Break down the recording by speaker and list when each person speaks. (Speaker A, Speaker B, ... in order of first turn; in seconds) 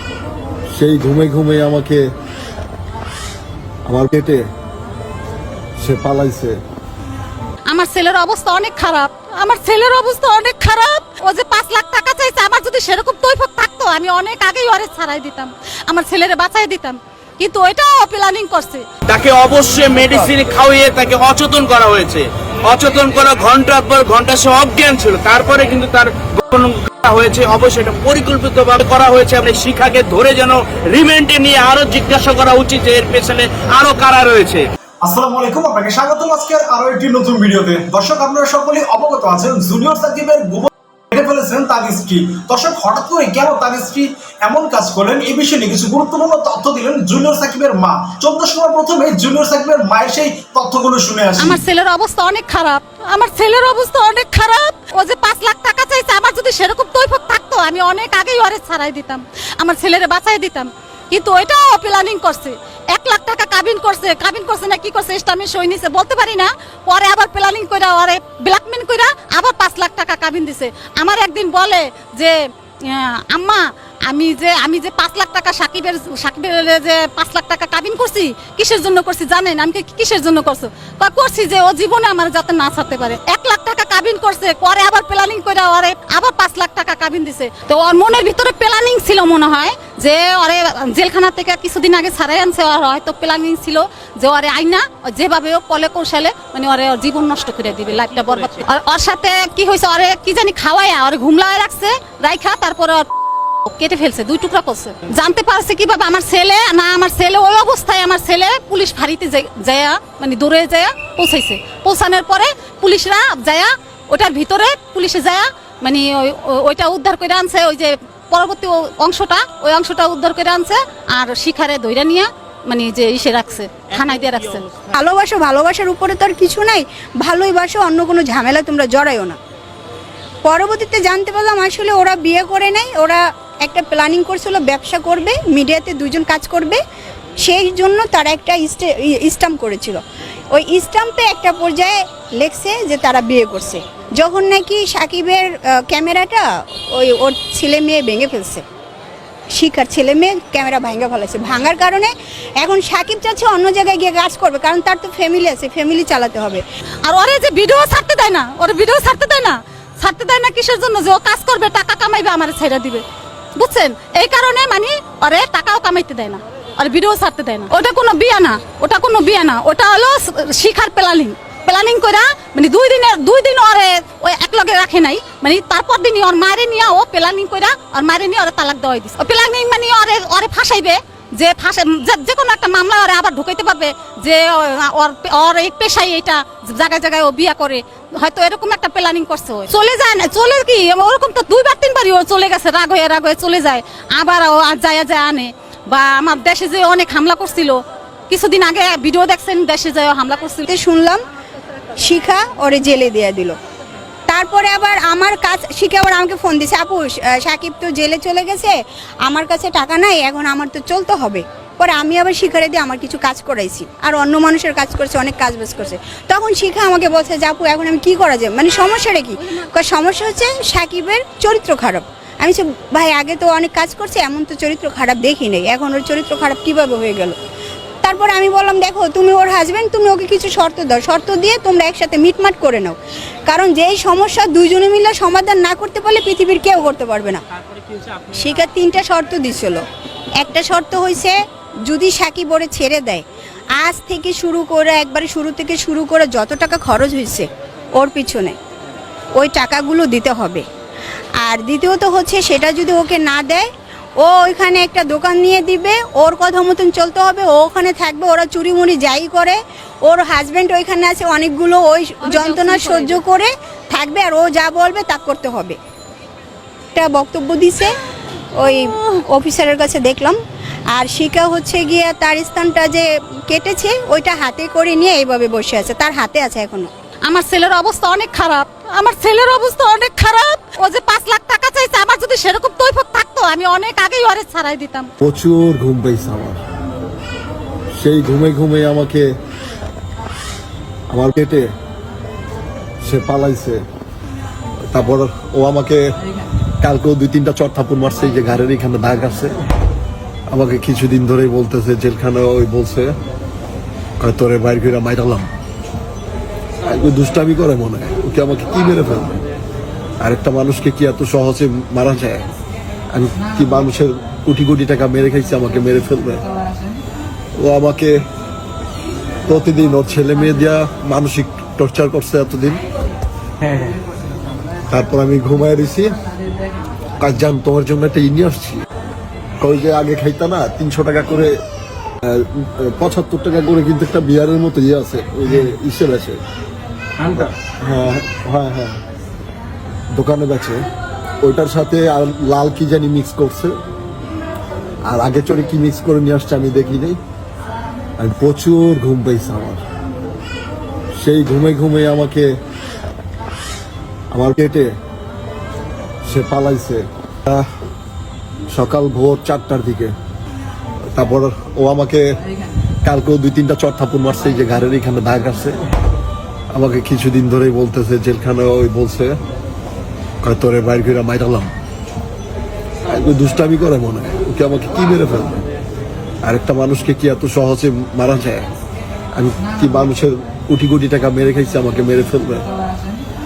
Speaker A: 0.7-2.1, 3.9-4.5, 5.8-6.6, 285.2-286.6, 288.0-289.4, 291.1-291.7, 293.0-293.8, 294.9-296.1, 296.8-299.6, 300.5-303.1, 304.2-305.5, 306.9-309.4, 310.2-312.5, 313.1-316.4, 317.6-318.2, 319.5-322.8, 324.9-326.2, 327.2-328.9, 329.6-331.6, 332.3-336.4, 337.3-339.0, 340.1-340.9, 341.4-343.7, 345.1-347.2, 348.2-349.8, 351.2-352.6, 354.3-355.0, 356.3-357.7, 358.7-360.1, 361.1-362.4, 363.1-365.8, 366.7-369.4, 370.4-371.7, 373.1-375.7, 376.4-378.7, 379.4-382.7
Speaker B: 7.7-18.9, 51.4-103.1, 103.7-124.7, 157.1-163.0, 163.6-200.7, 219.4-219.7, 262.2-263.2, 277.2-285.1
Speaker C: 19.1-34.7
Speaker D: 35.0-51.6
Speaker E: 124.9-129.4, 130.4-136.8, 137.4-140.0, 140.5-148.6, 149.5-156.6, 200.7-201.2, 202.0-203.6, 204.3-227.4, 228.0-237.4, 238.3-239.8, 240.4-243.2, 243.8-248.6, 249.4-250.7, 251.4-253.7, 254.2-265.8, 266.9-268.0, 268.6-270.4, 270.9-276.9